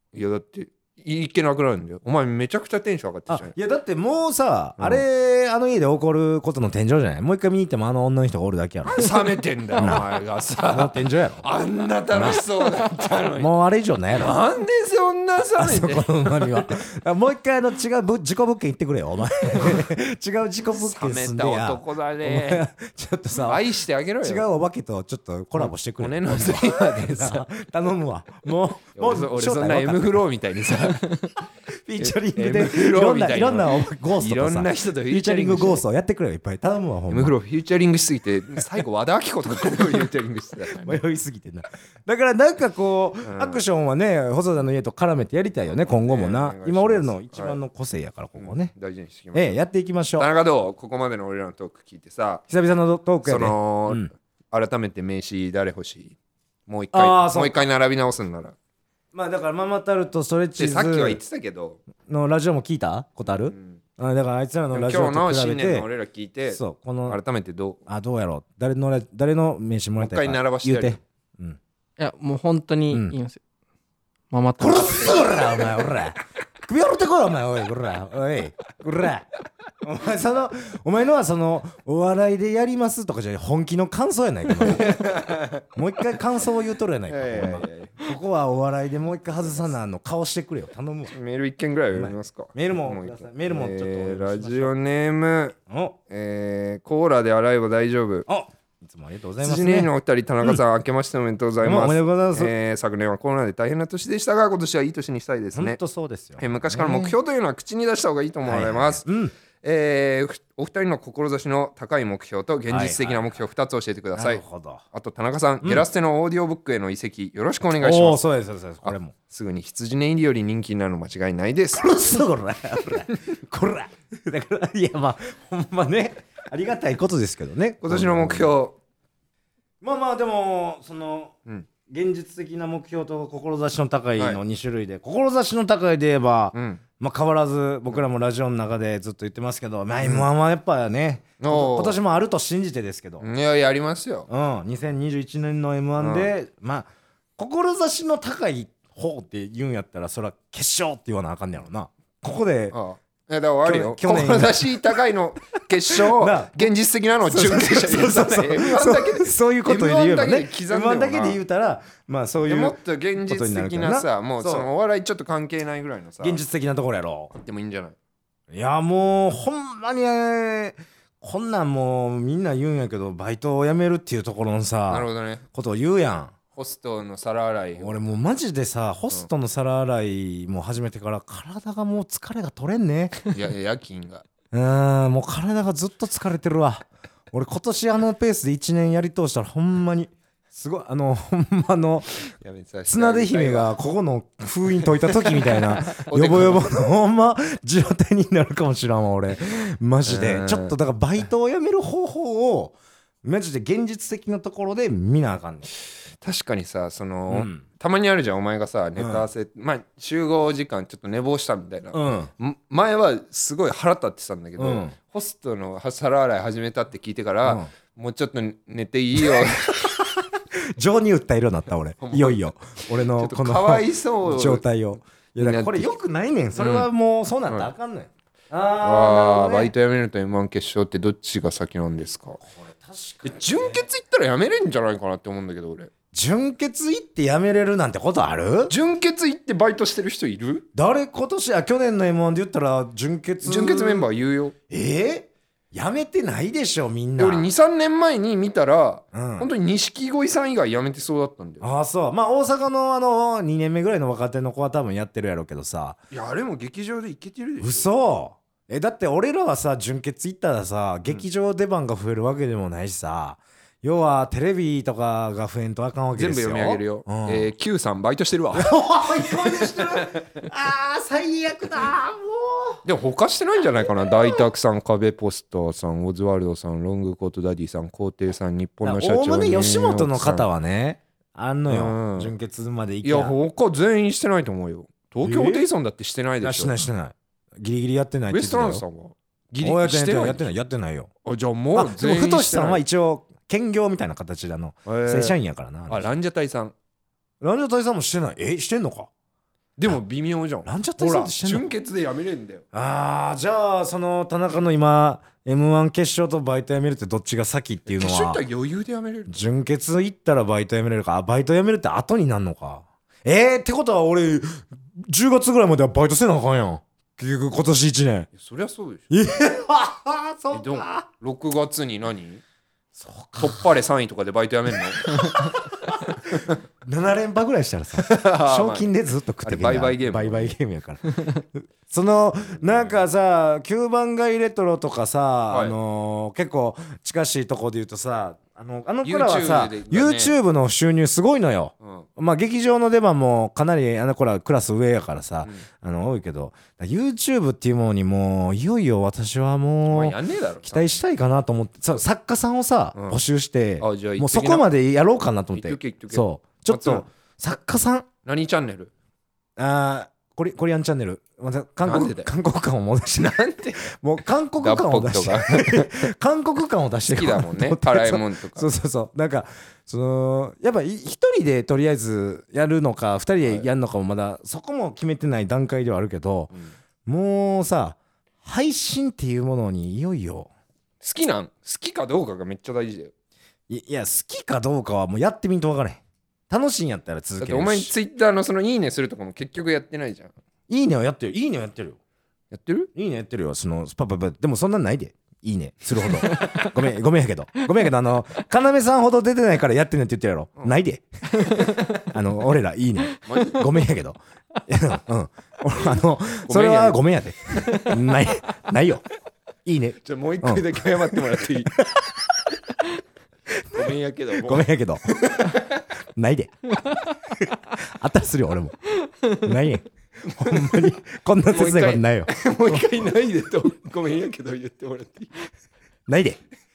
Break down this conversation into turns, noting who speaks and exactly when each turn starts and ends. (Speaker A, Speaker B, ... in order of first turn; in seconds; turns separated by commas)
Speaker A: 0.1-3.5, Speaker B: 3.3-9.2, Speaker A: 4.8-5.0, Speaker A: 8.8-13.5, Speaker B: 9.8-10.1, Speaker B: 10.7-11.5, Speaker B: 12.1-12.4, Speaker B: 13.4-14.3, Speaker A: 14.1-16.8, Speaker B: 15.6-23.6, Speaker A: 20.7-22.6, Speaker A: 23.4-24.5, Speaker B: 24.2-30.2, Speaker A: 25.6-27.4, Speaker A: 28.9-31.3, Speaker B: 31.7-37.3, Speaker A: 32.0-35.8, Speaker A: 37.1-41.0, Speaker B: 39.6-40.1, Speaker B: 40.7-48.7, Speaker A: 43.2-43.6, Speaker A: 45.8-47.6, Speaker A: 48.4-49.6, Speaker B: 49.3-50.3, Speaker A: 50.2-52.4, Speaker B: 52.5-54.1, Speaker A: 53.2-56.1, Speaker A: 56.7-58.5, Speaker B: 56.9-57.6, Speaker B: 59.1-61.2, Speaker A: 60.6-61.8, Speaker B: 62.1-65.9, Speaker A: 63.2-63.8, Speaker A: 64.7-67.8, Speaker B: 66.5-67.2, Speaker B: 67.9-71.6, Speaker A: 70.0-71.0, Speaker C: 72.0-73.4, Speaker B: 72.9-73.1, Speaker C: 74.3-75.3, Speaker B: 74.6-79.3, Speaker B: 79.8-85.2, Speaker A: 84.6-85.6, Speaker B: 85.7-91.1, Speaker A: 87.1-88.0, Speaker A: 89.4-89.7, Speaker A: 91.1-95.5, Speaker B: 91.9-94.7, Speaker B: 95.7-96.0, Speaker A: 96.1-98.3, Speaker B: 98.3-99.9, Speaker A: 99.4-105.8, Speaker B: 101.6-102.5, Speaker B: 105.5-107.2, Speaker A: 106.4-109.0, Speaker B: 108.5-109.3, Speaker A: 109.6-118.2, Speaker B: 112.7-113.4, Speaker B: 114.1-114.8, Speaker B: 115.6-115.9, Speaker B: 117.8-119.1, Speaker A: 118.8-121.8, Speaker B: 121.8-128.5, Speaker A: 127.8-128.8, Speaker B: 129.8-131.3, Speaker B: 131.9-143.2, Speaker A: 136.5-136.8, Speaker A: 140.0-140.3, Speaker A: 141.4-142.0, Speaker A: 143.2-144.3, Speaker B: 144.3-152.8, Speaker A: 146.0-146.3, Speaker A: 152.7-161.4, Speaker B: 153.6-154.9, Speaker B: 155.9-156.7, Speaker B: 157.2-164.7, Speaker A: 162.4-166.4, Speaker B: 166.2-167.3, Speaker A: 167.3-167.9, Speaker B: 168.5-176.3, Speaker A: 174.9-175.4, Speaker A: 176.5-178.0, Speaker B: 177.8-183.2, Speaker A: 183.3-184.3, Speaker B: 184.5-192.3, Speaker A: 192.4-193.7, Speaker B: 192.9-205.7, Speaker A: 195.4-196.7, Speaker A: 200.0-200.7, Speaker A: 206.2-220.0, Speaker B: 207.3-207.6, Speaker B: 209.0-209.2, Speaker B: 211.9-212.3, Speaker B: 214.6-214.9, Speaker B: 217.4-217.7, Speaker B: 219.2-229.7, Speaker A: 222.0-224.6, Speaker A: 225.4-225.9, Speaker A: 226.5-226.9, Speaker A: 228.8-232.4, Speaker B: 232.4-233.8, Speaker A: 233.2-235.9, Speaker B: 236.1-238.7, Speaker A: 238.7-240.6, Speaker B: 240.7-244.1, Speaker A: 243.4-244.5, Speaker B: 244.7-247.5, Speaker A: 247.2-251.7, Speaker B: 249.1-249.5, Speaker B: 251.6-256.0, Speaker A: 256.1-257.9, Speaker B: 257.6-267.5, Speaker A: 266.1-270.3, Speaker B: 268.6-272.8, Speaker A: 272.8-280.4, Speaker B: 278.8-283.3, Speaker A: 281.7-282.3, Speaker A: 283.0-286.7, Speaker B: 285.2-285.6, Speaker B: 286.4-288.8, Speaker A: 288.3-290.5, Speaker B: 289.6-291.1, Speaker A: 291.2-292.8, Speaker B: 291.7-296.1, Speaker A: 294.9-295.4, Speaker A: 295.9-296.7, Speaker B: 297.4-299.1, Speaker A: 299.8-302.6, Speaker B: 300.6-301.7, Speaker B: 302.7-308.4, Speaker A: 307.9-309.4, Speaker B: 309.3-318.3, Speaker A: 318.3-319.1, Speaker B: 319.1-321.0, Speaker A: 320.5-322.4, Speaker B: 322.9-323.6, Speaker A: 323.4-326.6, Speaker B: 326.8-358.1, Speaker A: 328.0-328.9, Speaker A: 329.4-330.5, Speaker A: 332.5-333.0, Speaker A: 335.5-335.8, Speaker A: 339.0-340.4, Speaker A: 341.8-342.1, Speaker A: 349.9-351.0, Speaker A: 352.9-353.2, Speaker A: 353.8-354.7, Speaker A: 355.5-357.1, Speaker A: 358.2-358.9, Speaker B: 359.6-376.5, Speaker A: 361.8-362.3, Speaker A: 363.2-363.9, Speaker A: 364.6-366.1, Speaker A: 367.1-368.7, Speaker A: 373.4-373.7, Speaker B: 377.1-380.5, Speaker A: 381.0-383.1, Speaker B: 383.7-387.9, Speaker A: 387.4-390.3, Speaker B: 390.7-392.0, Speaker A: 392.5-392.9, Speaker B: 392.9-409.0, Speaker A: 403.2-403.6, Speaker A: 406.4-407.0, Speaker B: 409.6-411.2, Speaker A: 410.0-411.8, Speaker B: 411.7-412.5, Speaker B: 413.5-415.6, Speaker A: 413.7-415.8, Speaker B: 416.1-416.7, Speaker B: 417.3-422.9, Speaker A: 420.4-420.8, Speaker A: 421.5-425.4, Speaker B: 426.1-426.4